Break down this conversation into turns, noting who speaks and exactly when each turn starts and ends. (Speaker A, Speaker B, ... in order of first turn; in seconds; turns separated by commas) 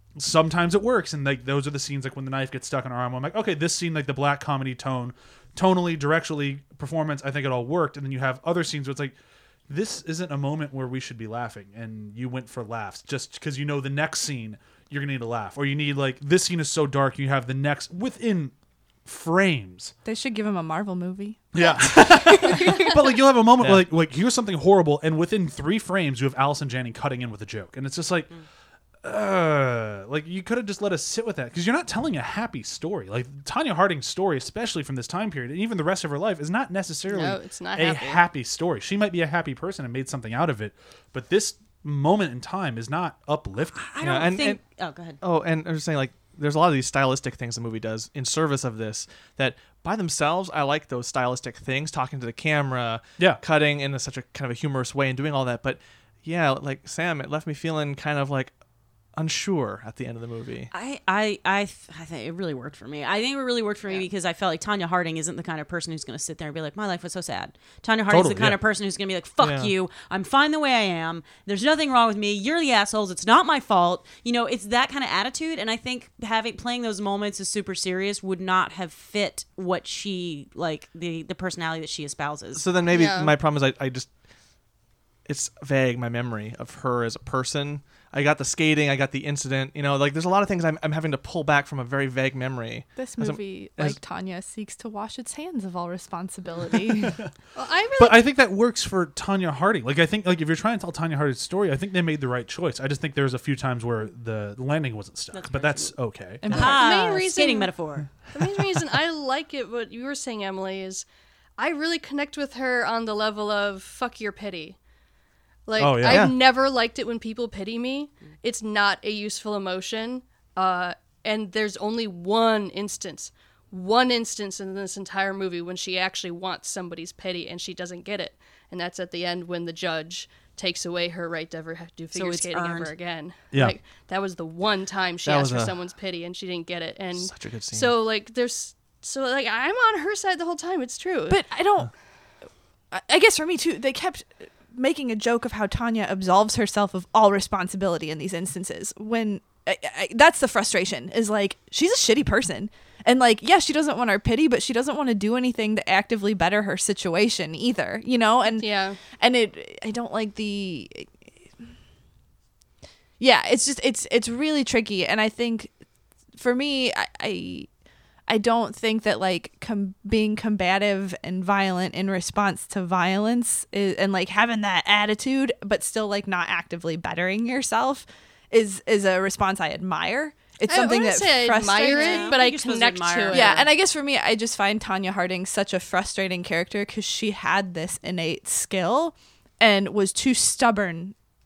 Speaker A: 0.1-9.2, Speaker A: 9.7-18.5, Speaker A: 19.0-19.9, Speaker B: 20.0-23.0, Speaker A: 21.5-28.3, Speaker C: 23.6-23.9, Speaker A: 29.0-43.8, Speaker D: 37.1-38.2, Speaker E: 43.7-45.2, Speaker C: 44.0-44.6, Speaker C: 45.2-58.5, Speaker C: 59.1-60.7, Speaker E: 60.7-82.7, Speaker A: 68.1-68.6, Speaker C: 69.4-69.7, Speaker C: 82.5-84.2, Speaker D: 82.9-83.4, Speaker C: 85.2-94.0, Speaker B: 93.0-97.2, Speaker D: 97.5-98.2, Speaker A: 98.0-106.7, Speaker E: 105.3-108.1, Speaker B: 106.4-107.1, Speaker D: 106.5-107.8, Speaker D: 108.3-111.0, Speaker D: 111.6-114.8, Speaker D: 115.7-141.4, Speaker A: 115.8-116.3, Speaker C: 116.0-116.4, Speaker E: 132.1-132.9, Speaker C: 135.2-135.8, Speaker C: 137.1-137.9, Speaker B: 141.3-142.1, Speaker B: 142.9-161.2, Speaker D: 158.5-159.0, Speaker B: 163.2-165.8, Speaker B: 166.3-167.7, Speaker B: 168.3-182.4, Speaker D: 180.7-183.7, Speaker E: 181.8-183.7, Speaker B: 183.3-191.2